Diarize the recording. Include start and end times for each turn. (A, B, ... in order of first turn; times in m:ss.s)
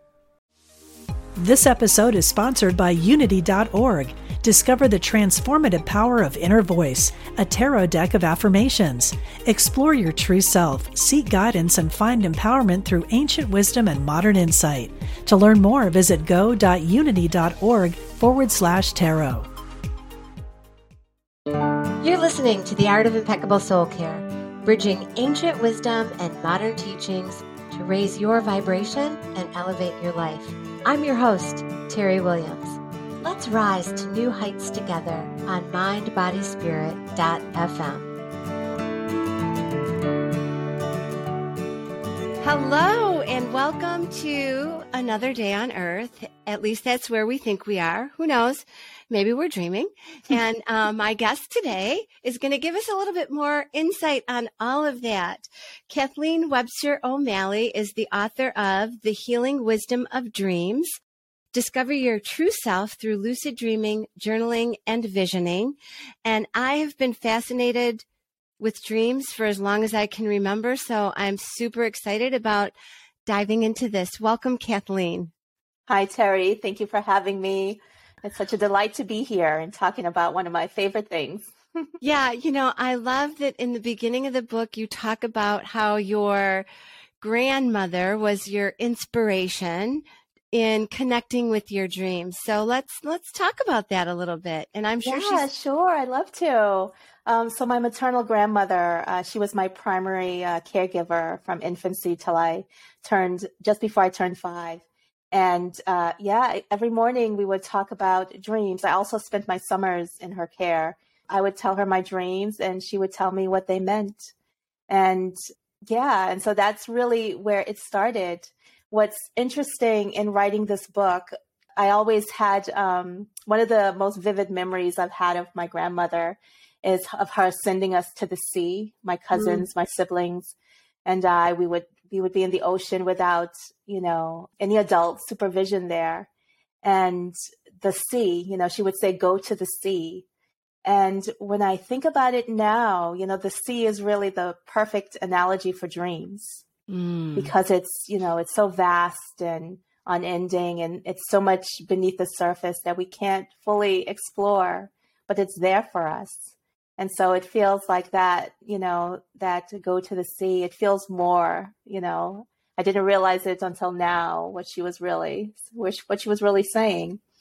0:01.4-0:19.4 A
0:22.0-0:38.1 B
0:42.4-1:01.0 B
1:01.5-1:08.0 B
1:08.6-1:12.7 B
1:13.2-1:15.3 B
1:15.9-1:21.9 C
1:22.0-1:26.6 B
1:27.2-1:35.5 B
1:35.0-1:54.3 C
1:54.9-1:55.4 C
1:55.9-2:16.3 C
2:09.3-2:09.6 B
2:16.8-2:20.2 C
2:20.8-2:26.6 C
2:26.9-2:27.5 B
2:27.3-2:47.2 C